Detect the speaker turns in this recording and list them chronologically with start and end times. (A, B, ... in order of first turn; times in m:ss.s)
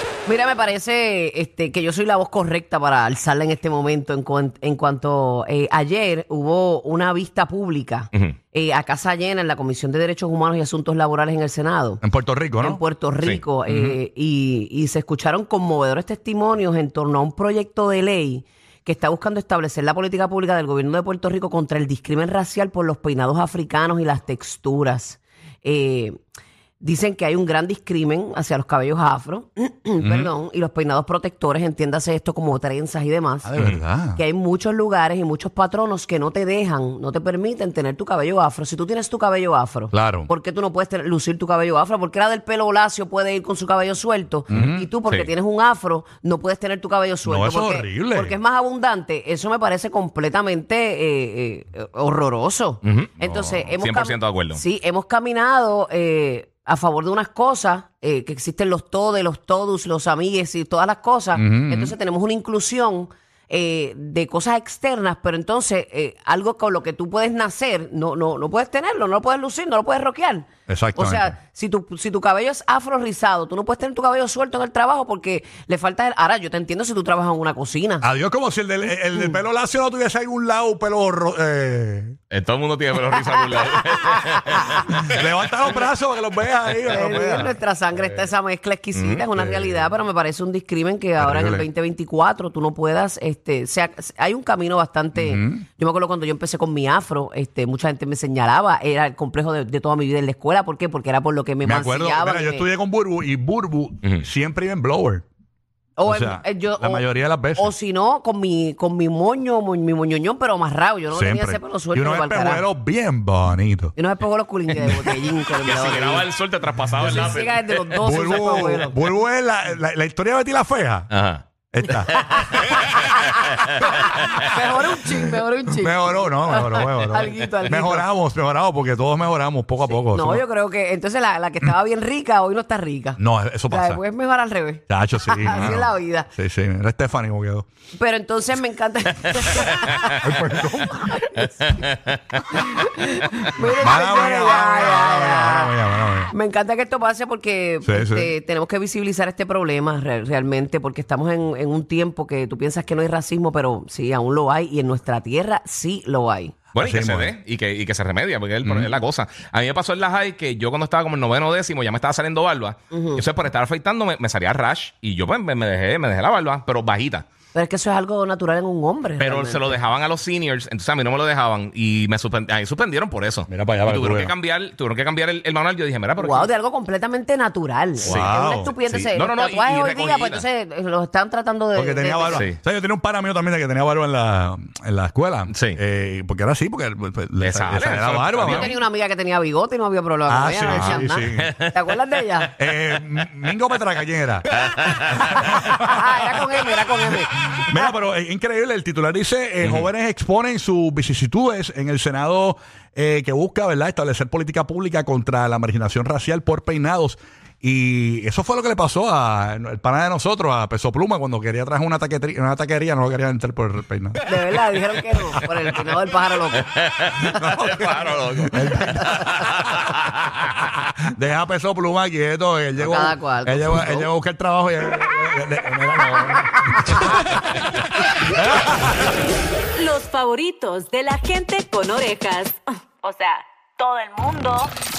0:00.2-0:12.0 A
0:12.0-0:12.8 B
0:12.6-0:26.2 A
0:13.6-0:14.0 B
0:26.8-0:33.5 A
0:30.0-0:30.3 B
0:33.4-0:34.2 B
0:34.2-1:18.0 A
0:39.9-0:40.3 B
0:44.5-0:44.9 B
0:44.5-0:45.3 C
0:47.2-0:48.4 B
0:52.8-0:54.6 C
1:01.3-1:01.9 B
1:10.7-1:11.4 B
1:18.0-1:22.2 B
1:22.3-1:25.1 C
1:23.2-1:24.6 A
1:24.9-1:28.2 B
1:26.9-1:42.7 A
1:28.9-1:29.2 C
1:29.3-1:29.9 B
1:31.2-1:31.7 B
1:35.2-1:35.6 B
1:41.6-1:45.2 B
1:46.0-1:52.6 A
1:46.0-1:47.7 B
1:51.1-1:53.9 B
1:54.0-1:56.3 A
1:54.7-1:55.1 B
1:55.6-1:58.3 C
1:57.0-1:59.0 A
1:57.0-1:57.3 B
1:58.0-2:01.1 B
2:01.1-2:01.4 C
2:01.7-2:03.0 B
2:02.1-2:04.7 C
2:02.4-2:08.1 A
2:05.7-2:10.4 B
2:09.9-2:13.2 A
2:13.2-2:14.0 B
2:13.7-2:16.3 A
2:14.9-2:17.6 B
2:18.0-2:21.9 A
2:19.7-2:20.1 C
2:20.1-2:21.1 B
2:21.6-2:22.7 C
2:22.5-2:25.7 A
2:23.8-2:26.3 B
2:26.3-2:36.6 A
2:27.8-2:28.3 B
2:36.7-2:47.2 C
2:36.8-2:37.3 B
2:38.6-2:38.9 B
2:42.9-2:43.2 A
2:47.5-2:49.8 A
2:49.2-2:56.5 C
2:53.5-2:54.3 B
2:56.2-3:02.5 A
2:58.0-2:59.1 B
2:58.0-2:58.4 C
2:59.1-3:00.4 C
3:01.7-3:08.7 B
3:02.3-3:02.6 C
3:05.5-3:05.8 C
3:07.4-3:08.8 C
3:08.4-3:12.5 A
3:10.3-3:11.5 B
3:10.7-3:13.0 C
3:12.6-3:16.4 B
3:14.5-3:15.8 C
3:15.5-3:17.9 A
3:17.5-3:34.2 B
3:19.6-3:19.9 C
3:34.2-3:36.8 A
3:36.5-3:40.3 C
3:37.2-3:39.8 B
3:38.7-3:39.4 A
3:40.5-3:49.1 B
3:42.8-3:44.1 A
3:49.7-3:53.2 D